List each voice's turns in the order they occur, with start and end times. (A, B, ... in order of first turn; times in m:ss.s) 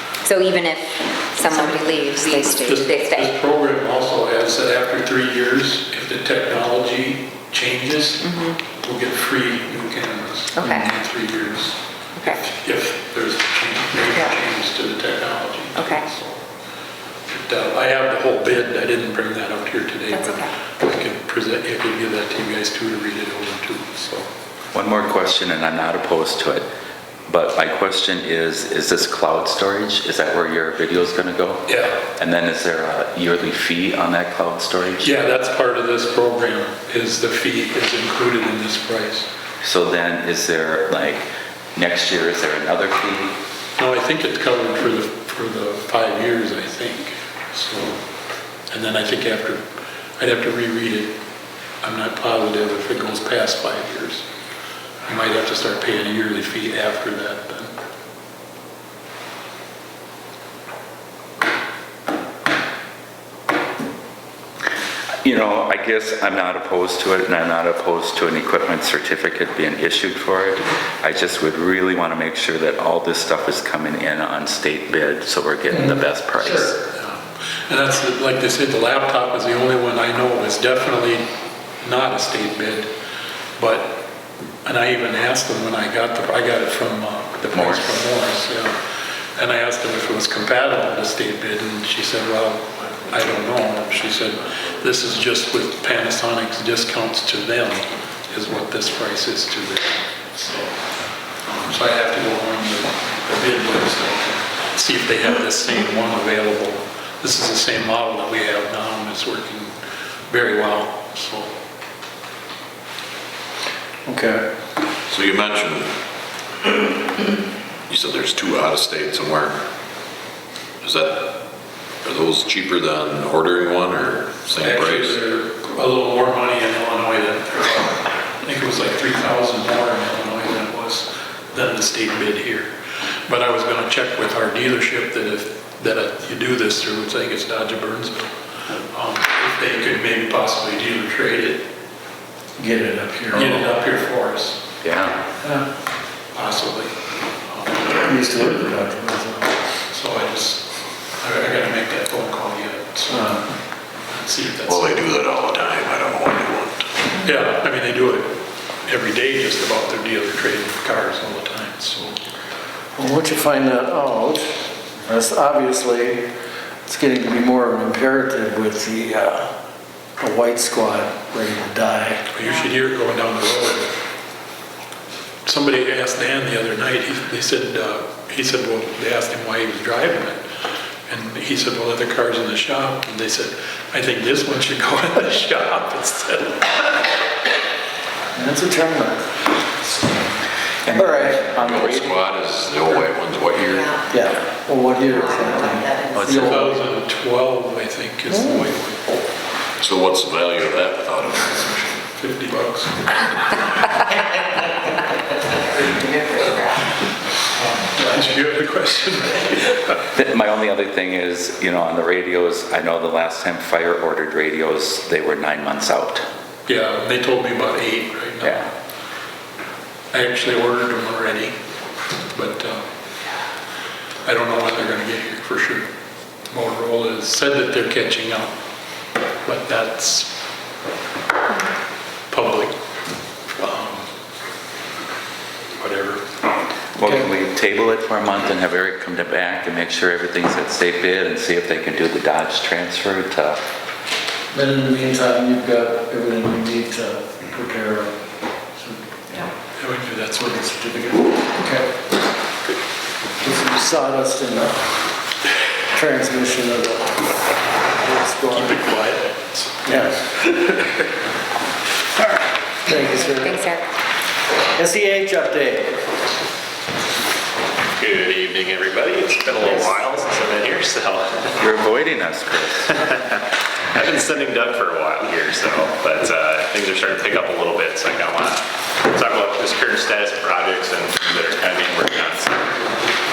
0:00.2-0:03.3 A
0:02.3-0:16.3 B
0:08.2-0:08.6 A
0:10.5-0:10.9 A
0:12.2-0:12.4 A
0:15.7-0:16.1 A
0:17.3-0:24.3 B
0:20.1-0:20.5 A
0:24.7-0:26.7 C
0:27.3-0:35.1 C
0:31.7-0:32.0 B
0:35.0-0:39.3 B
0:39.6-0:43.3 C
0:43.8-0:48.0 B
0:48.7-0:49.6 B
0:50.2-0:51.2 B
0:51.8-0:54.2 B
0:55.0-0:57.7 B
1:05.2-1:16.7 C
1:15.7-1:16.7 D
1:16.9-1:21.2 B
1:21.8-1:22.9 B
1:23.6-1:24.0 B
1:24.6-1:28.8 B
1:27.5-1:28.0 C
1:29.4-1:40.7 B
1:41.4-1:49.7 B
1:50.3-1:51.5 B
1:54.0-1:54.4 D
1:55.1-1:55.9 E
1:57.9-1:59.6 E
2:00.8-2:01.4 E
2:02.0-2:05.2 E
2:04.6-2:12.7 B
2:13.3-2:18.3 B
2:18.9-2:21.6 B
2:22.6-2:23.6 D
2:23.3-2:24.6 B
2:24.8-2:25.2 C
2:26.3-2:26.9 B
2:27.5-2:27.8 B
2:27.9-2:29.6 D
2:29.9-2:30.7 B
2:31.2-2:33.5 B
2:33.1-2:33.4 D
2:34.1-2:34.9 B
2:34.6-2:36.9 E
2:37.2-2:42.2 B
2:43.0-2:44.5 D
2:45.0-2:46.2 D
2:46.8-2:49.5 D
2:50.2-2:52.2 D
2:52.3-2:53.9 B
2:55.4-3:00.4 B
3:01.1-3:06.8 B
3:08.3-3:09.3 D
3:10.8-3:12.1 C
3:10.9-3:11.4 D
3:11.5-3:14.0 E
3:14.1-3:16.8 D
3:16.2-3:16.5 C
3:16.3-3:19.0 B
3:18.3-3:18.7 D
3:19.8-3:22.0 E
3:22.1-3:23.2 B
3:27.7-3:30.0 B
3:30.1-3:36.2 C
3:36.6-3:38.7 B
3:38.4-3:38.7 C
3:40.1-3:41.5 B
3:42.3-3:42.9 B
3:44.2-3:45.8 B
3:46.5-3:48.5 B
3:49.4-3:50.3 B
3:52.3-3:52.7 B
3:53.5-3:54.0 B
3:55.8-3:56.2 B
3:57.0-4:03.6 C
3:57.0-3:57.3 D
4:04.5-4:08.2 D
4:08.7-4:09.5 D
4:09.8-4:10.5 B
4:10.4-4:11.9 D
4:13.4-4:14.9 D
4:15.9-4:17.3 D
4:17.9-4:18.8 D
4:18.5-4:19.8 B
4:19.8-4:20.4 D
4:22.8-4:23.6 D
4:23.1-4:23.8 A
4:24.8-4:26.0 D
4:28.0-4:31.6 F
4:31.6-4:32.9 C
4:32.9-4:42.7 F